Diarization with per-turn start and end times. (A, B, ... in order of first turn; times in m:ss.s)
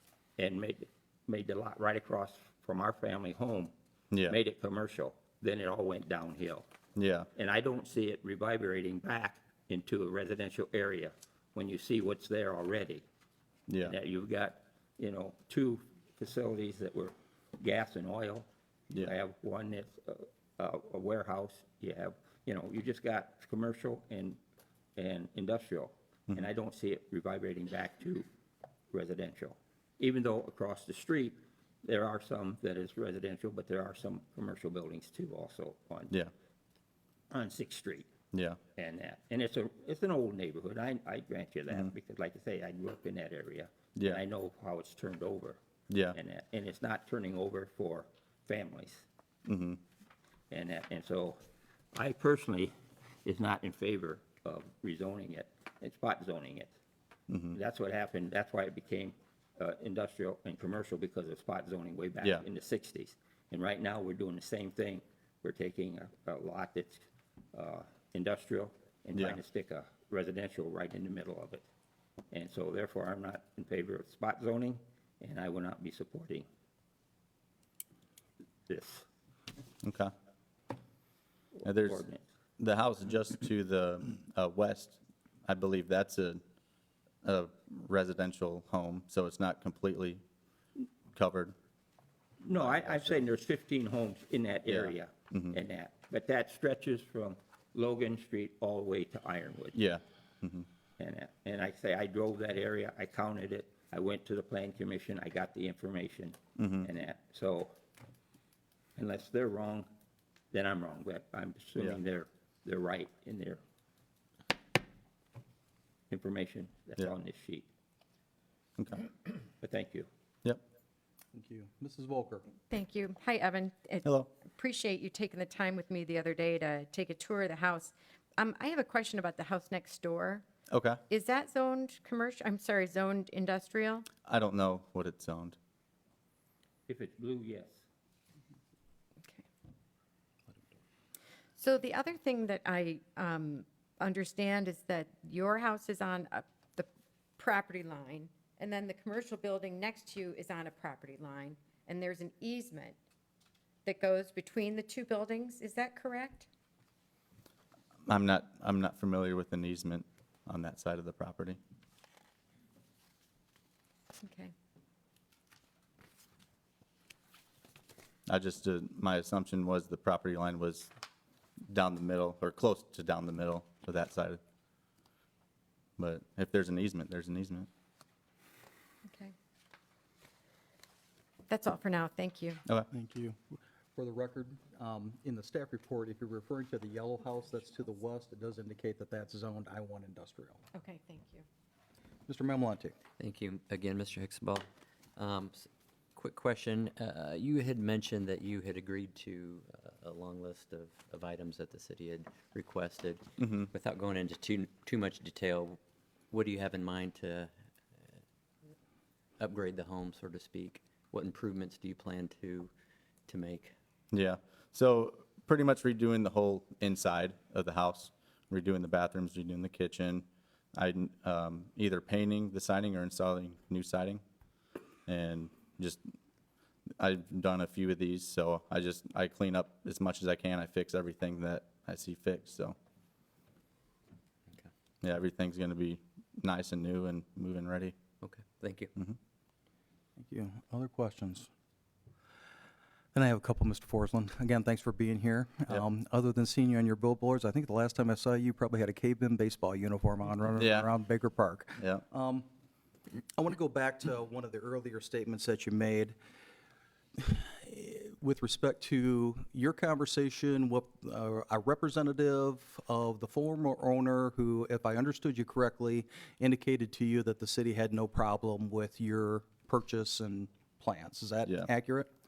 0:00.4-0:03.7 A
0:04.1-0:04.4 B
0:04.3-0:06.7 A
0:07.0-0:07.3 B
0:07.4-0:13.0 A
0:13.7-0:13.9 B
0:13.8-0:18.5 A
0:19.0-0:24.4 A
0:25.0-0:28.3 A
0:28.9-0:36.1 A
0:37.3-0:38.1 A
0:38.3-0:38.6 B
0:38.8-0:45.6 A
0:44.0-0:44.2 B
0:45.9-0:46.2 B
0:46.1-0:49.1 A
0:49.5-0:49.8 B
0:50.5-0:51.4 A
0:51.9-0:52.7 A
0:53.2-0:56.7 A
0:57.3-0:57.6 B
0:57.5-1:11.7 A
1:12.3-1:16.5 A
1:18.7-1:19.0 A
1:19.8-1:20.1 B
1:21.5-1:22.2 A
1:21.6-1:22.0 B
1:22.6-1:26.4 B
1:27.2-1:30.2 B
1:31.1-1:31.6 B
1:32.4-1:39.8 A
1:32.6-1:33.2 B
1:34.7-1:35.6 B
1:39.7-1:40.7 B
1:41.0-1:47.7 A
1:46.6-1:46.9 B
1:49.0-1:49.9 A
1:50.5-1:53.6 A
1:56.1-1:57.7 A
1:58.8-1:59.0 B
1:59.6-2:00.1 A
2:01.3-2:02.5 C
2:02.6-2:10.4 D
2:04.0-2:04.3 B
2:10.7-2:11.0 B
2:11.1-2:14.1 D
2:14.2-2:15.6 B
2:16.9-2:17.8 A
2:21.6-2:33.0 D
2:33.8-2:36.5 D
2:38.1-2:41.6 B
2:44.2-2:44.5 D
2:48.3-2:50.9 B
2:51.7-2:54.4 B
2:56.0-2:57.7 B
2:59.1-2:59.3 D
3:01.5-3:02.6 D
3:02.9-3:10.6 C
3:10.8-3:11.5 D
3:12.3-3:13.0 C
3:13.2-3:25.8 E
3:23.4-3:23.7 B
3:26.3-3:27.5 E
3:29.4-3:32.7 E
3:33.3-3:33.8 E
3:34.1-3:44.2 B
3:45.1-3:46.0 B
3:47.0-3:52.8 B
3:55.0-3:58.0 B
3:58.2-3:58.9 E
4:00.2-4:01.5 C
4:03.1-4:12.5 C
4:10.6-4:10.9 B
4:11.8-4:12.0 B
4:13.4-4:16.2 C
4:17.2-4:32.1 C